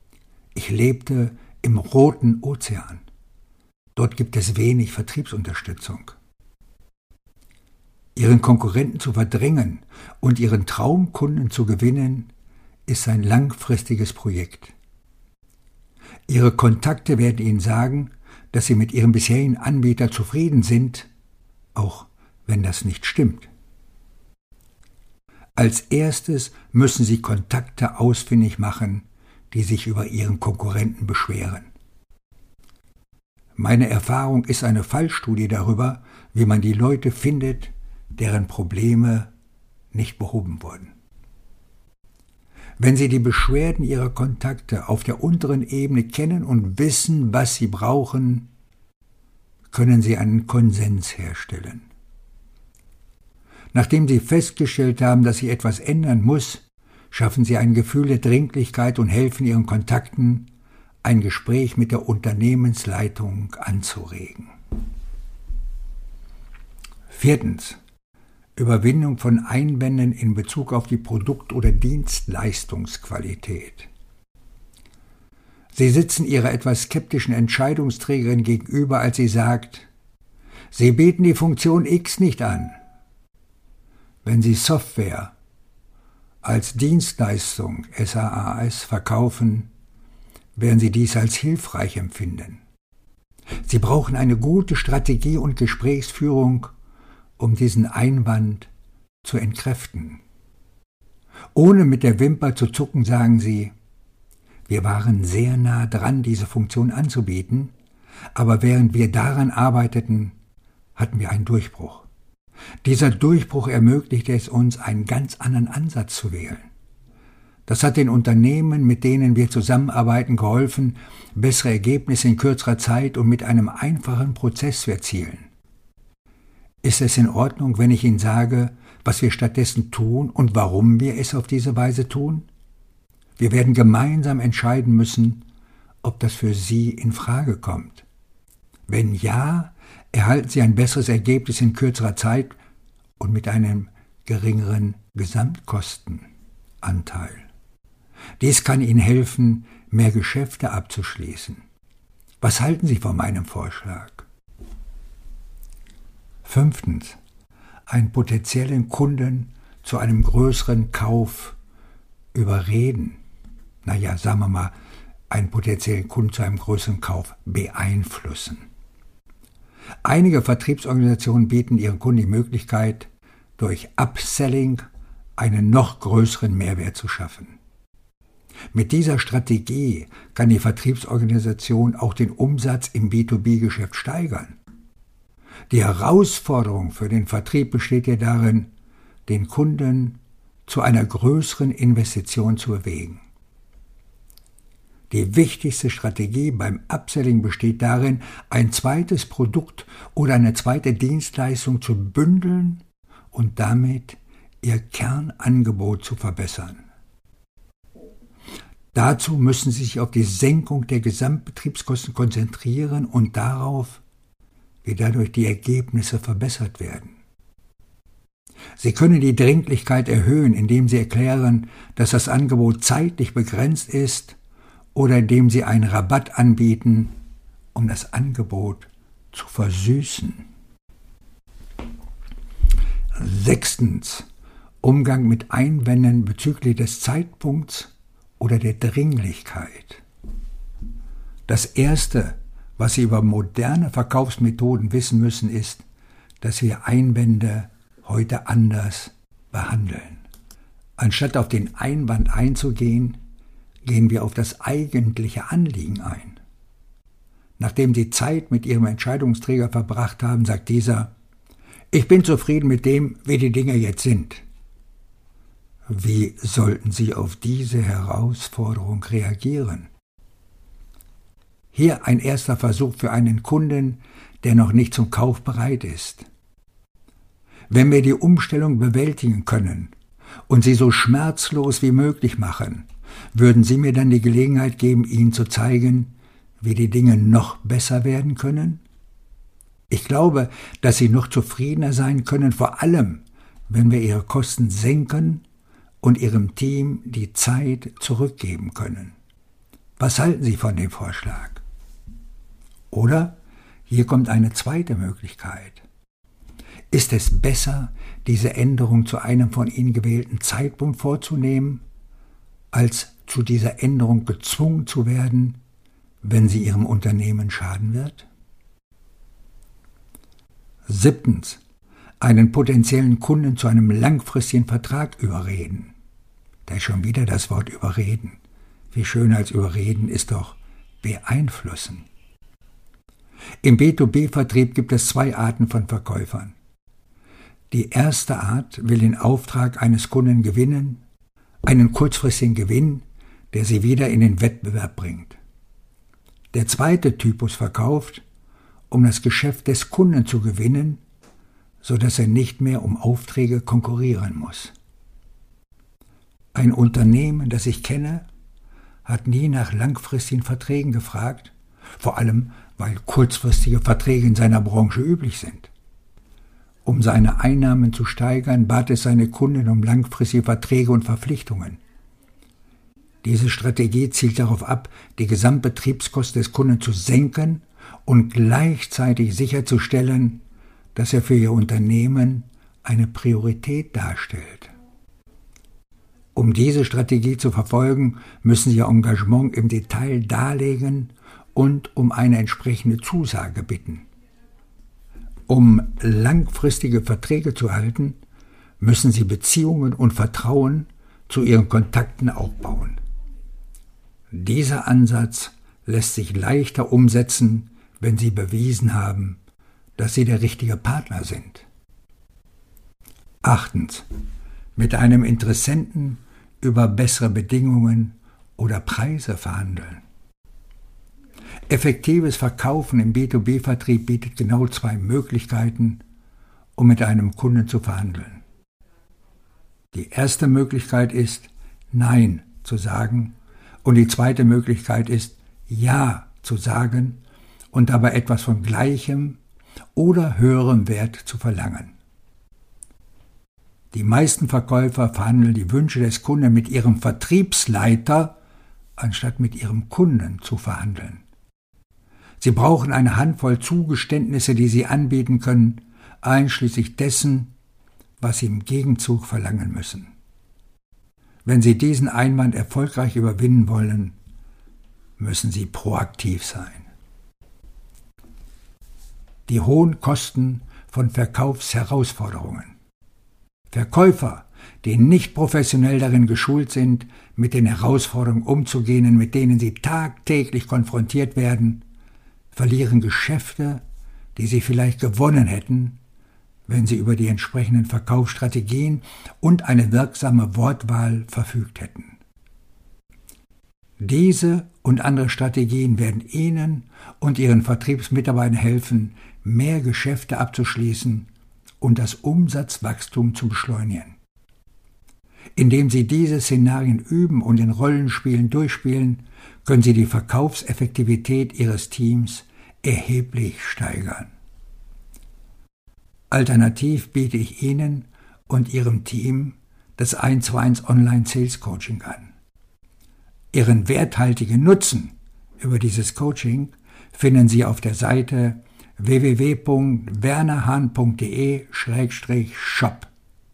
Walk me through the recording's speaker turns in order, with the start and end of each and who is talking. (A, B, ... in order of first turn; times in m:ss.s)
0:00.6-0:03.0 A
0:04.0-0:06.2 A
0:08.2-0:12.3 A
0:12.9-0:14.7 A
0:16.3-0:21.1 A
0:21.8-0:23.5 A
0:25.6-0:31.7 A
0:33.6-0:39.3 A
0:39.9-0:40.9 A
0:42.8-0:48.5 A
0:49.7-0:51.9 A
0:53.7-1:00.5 A
1:01.0-1:04.5 A
1:07.1-1:07.8 A
1:08.6-1:13.9 A
1:15.7-1:19.9 A
1:20.7-1:22.8 A
1:24.2-1:25.3 A
1:26.4-1:29.7 A
1:30.6-1:32.6 A
1:33.6-1:36.7 A
1:37.4-1:38.7 A
1:39.2-1:40.2 A
1:41.6-1:43.7 A
1:44.7-1:47.7 A
1:48.4-1:50.4 A
1:51.0-1:52.1 A
1:52.8-1:56.7 A
1:57.7-2:05.5 A
2:06.8-2:12.5 A
2:13.4-2:15.4 A
2:16.0-2:18.0 A
2:18.9-2:22.6 A
2:23.2-2:26.3 A
2:26.8-2:27.5 A
2:28.4-2:31.6 A
2:32.4-2:34.3 A
2:36.4-2:37.2 A
2:37.9-2:41.6 A
2:42.3-2:43.2 A
2:43.8-2:44.7 A
2:45.3-2:48.6 A
2:50.0-2:54.8 A
2:55.4-2:57.6 A
2:58.7-3:04.6 A
3:05.7-3:08.7 A
3:09.3-3:13.2 A
3:15.1-3:26.8 A
3:28.9-3:34.0 A
3:34.8-3:37.2 A
3:38.8-3:44.4 A
3:45.0-3:47.1 A
3:47.7-3:50.5 A
3:53.2-3:54.3 A
3:54.8-4:00.0 A
4:01.5-4:05.8 A
4:06.4-4:10.2 A
4:11.0-4:13.2 A
4:13.8-4:16.4 A
4:17.6-4:21.1 A
4:21.9-4:24.4 A
4:25.9-4:29.9 A
4:31.7-4:36.3 A
4:37.7-4:39.9 A
4:40.5-4:48.8 A
4:49.9-4:55.4 A
4:56.0-4:59.2 A
5:00.0-5:01.6 A
5:02.9-5:05.8 A
5:06.9-5:11.8 A
5:12.7-5:15.6 A
5:16.2-5:18.3 A
5:20.9-5:21.6 A
5:22.2-5:25.9 A
5:26.7-5:28.4 A
5:28.9-5:32.1 A
5:33.6-5:36.6 A
5:37.7-5:41.0 A
5:41.6-5:45.4 A
5:46.5-5:48.2 A
5:48.9-5:51.0 A
5:51.8-5:54.7 A
5:56.5-5:58.3 A
5:59.0-6:05.7 A
6:06.9-6:11.8 A
6:13.2-6:20.4 A
6:21.0-6:24.7 A
6:26.4-6:34.1 A
6:35.5-6:38.2 A
6:38.8-6:43.0 A
6:44.3-6:49.4 A
6:50.0-6:51.7 A
6:53.4-6:54.1 A
6:54.8-7:00.0 A
7:01.7-7:06.0 A
7:06.8-7:08.4 A
7:09.9-7:19.4 A
7:20.0-7:22.0 A
7:23.9-7:28.4 A
7:29.0-7:31.2 A
7:32.4-7:37.5 A
7:38.2-7:40.1 A
7:41.4-7:44.2 A
7:45.2-7:46.9 A
7:49.5-7:52.7 A
7:53.7-8:01.8 A
8:02.5-8:03.8 A
8:04.4-8:06.0 A
8:06.7-8:12.2 A
8:14.0-8:21.3 A
8:21.8-8:24.2 A
8:25.6-8:34.3 A
8:36.3-8:42.3 A
8:43.5-8:53.1 A